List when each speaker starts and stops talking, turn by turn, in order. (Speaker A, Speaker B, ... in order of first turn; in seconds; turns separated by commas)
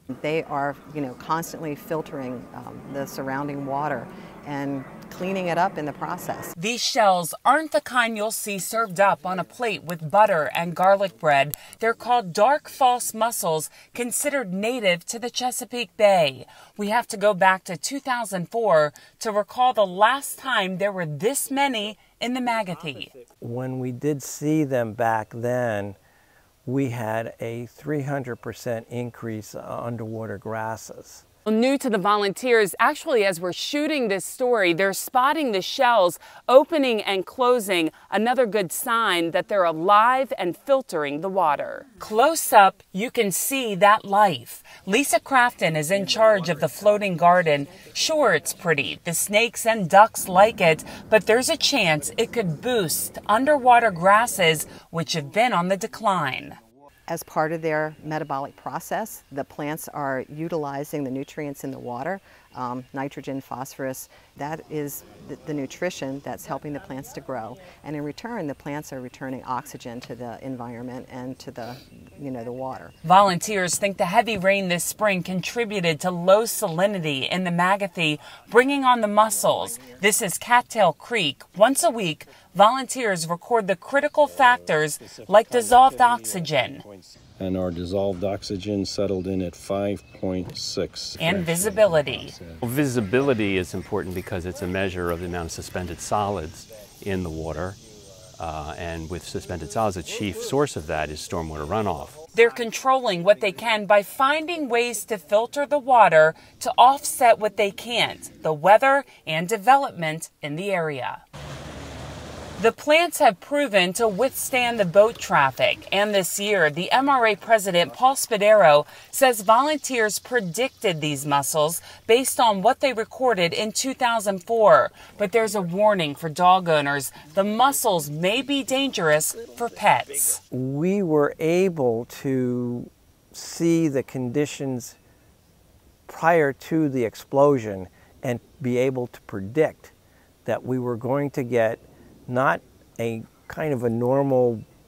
Speaker A: 0.2-6.5, Speaker B: 6.6-23.1, Speaker C: 23.4-26.0, Speaker C: 26.6-31.2, Speaker B: 31.4-56.6, Speaker A: 57.1-72.9, Speaker B: 73.0-86.9, Speaker D: 85.3-92.6, Speaker B: 91.2-92.3, Speaker E: 92.6-97.8, Speaker E: 98.4-102.2, Speaker B: 102.3-111.2, Speaker B: 112.6-130.4, Speaker C: 130.5-135.0, Speaker C: 136.1-139.9, Speaker C: 140.4-144.6